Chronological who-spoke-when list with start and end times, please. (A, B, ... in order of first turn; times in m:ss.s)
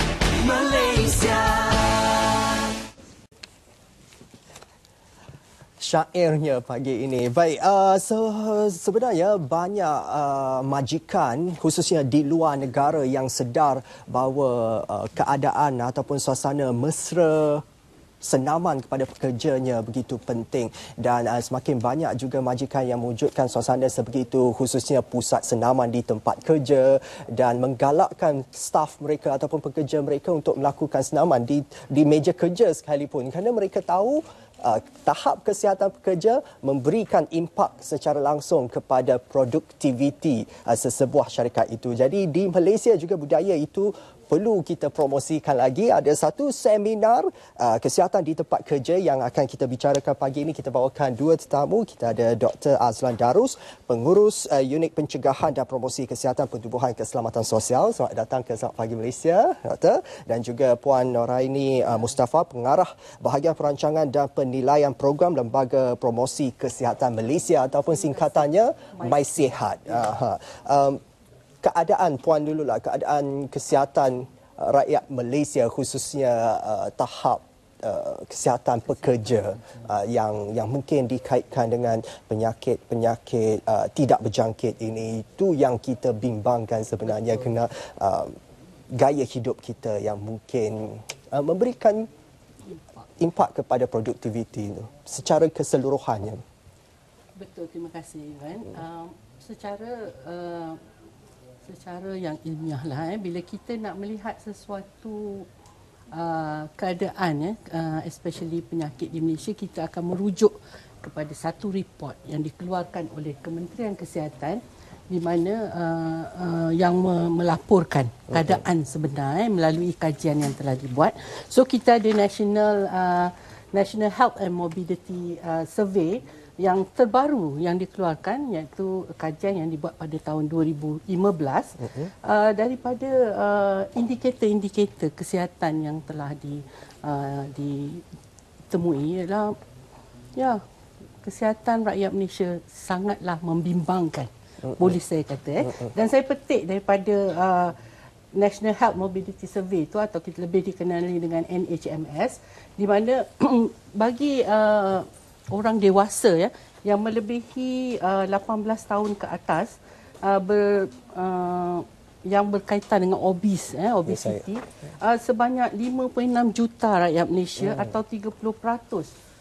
0:00.4-0:02.2 A
0:05.8-0:17.6 A
0:18.2-1:11.0 A
1:07.9-1:10.1 B
1:11.6-1:28.4 A
1:18.9-1:19.8 B
1:27.1-1:27.5 B
1:28.9-1:32.1 A
1:33.2-1:36.4 A
1:37.4-1:40.8 B
1:41.6-1:45.5 B
1:46.1-2:18.0 B
1:58.3-1:58.6 A
2:11.8-2:12.1 A
2:18.7-2:19.5 B
2:20.4-2:20.6 B
2:21.2-2:27.8 B
2:24.7-2:25.0 A
2:28.3-2:49.1 B
2:44.0-2:44.4 A
2:47.6-2:48.0 A